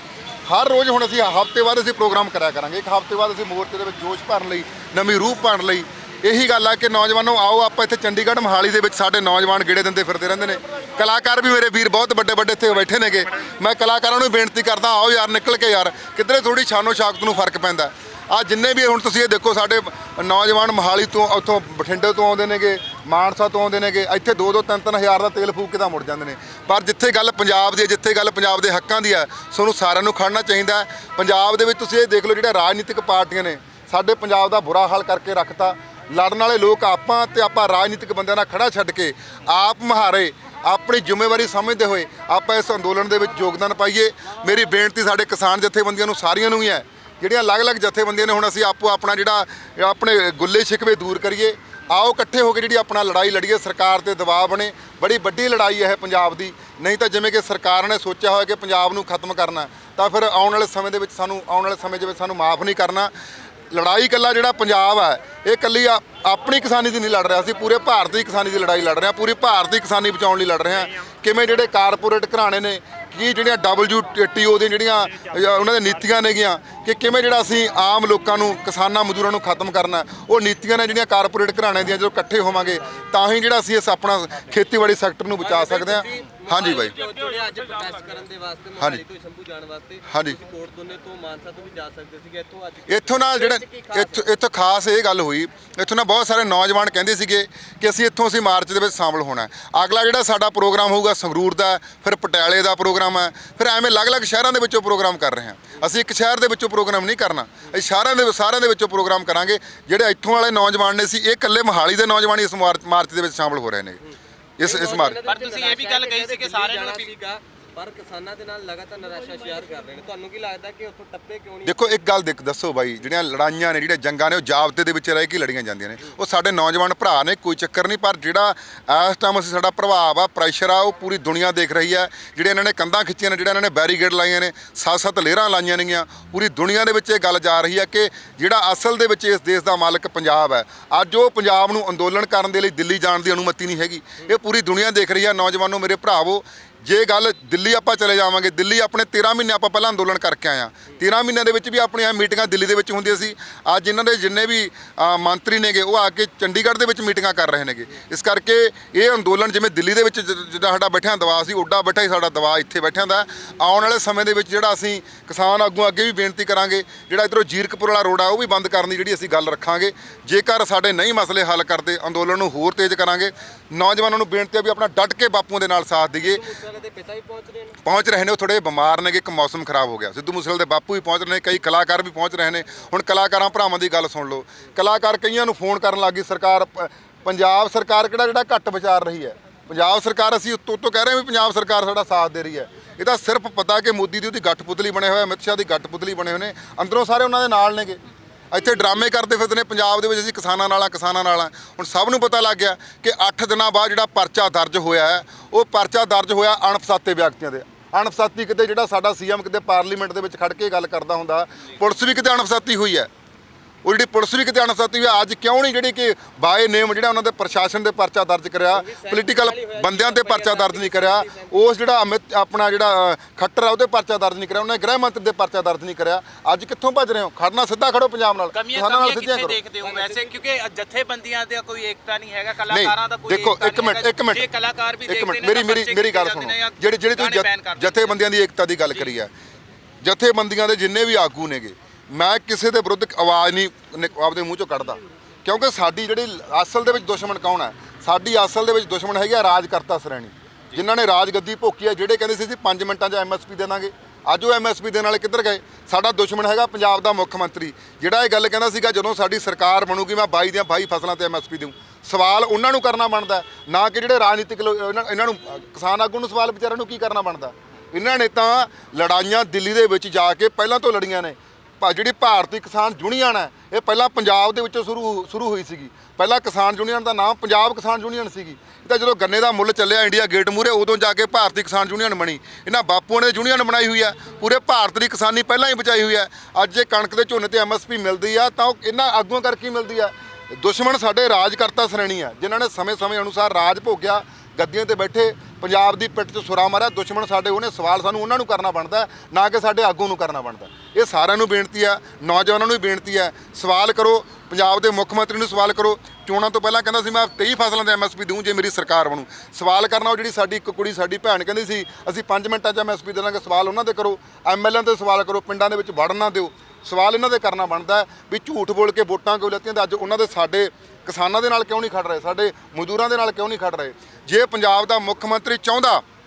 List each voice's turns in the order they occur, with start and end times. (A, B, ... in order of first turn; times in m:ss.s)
0:00.5-1:03.1 A
1:03.7-1:27.0 A
1:25.4-1:34.3 B
1:30.1-1:30.4 A
1:32.9-1:54.0 A
1:54.6-1:55.2 A
1:54.6-2:01.9 B
1:55.2-1:57.1 C
2:01.6-2:56.4 A
2:56.2-2:57.8 B
2:57.8-3:18.0 A
3:18.5-3:33.1 A
3:33.8-3:49.6 A
3:38.7-3:41.6 B
3:48.5-3:58.2 C
3:49.8-3:50.4 B
3:52.7-3:54.4 A
3:55.1-3:59.3 A
4:00.0-5:26.0 A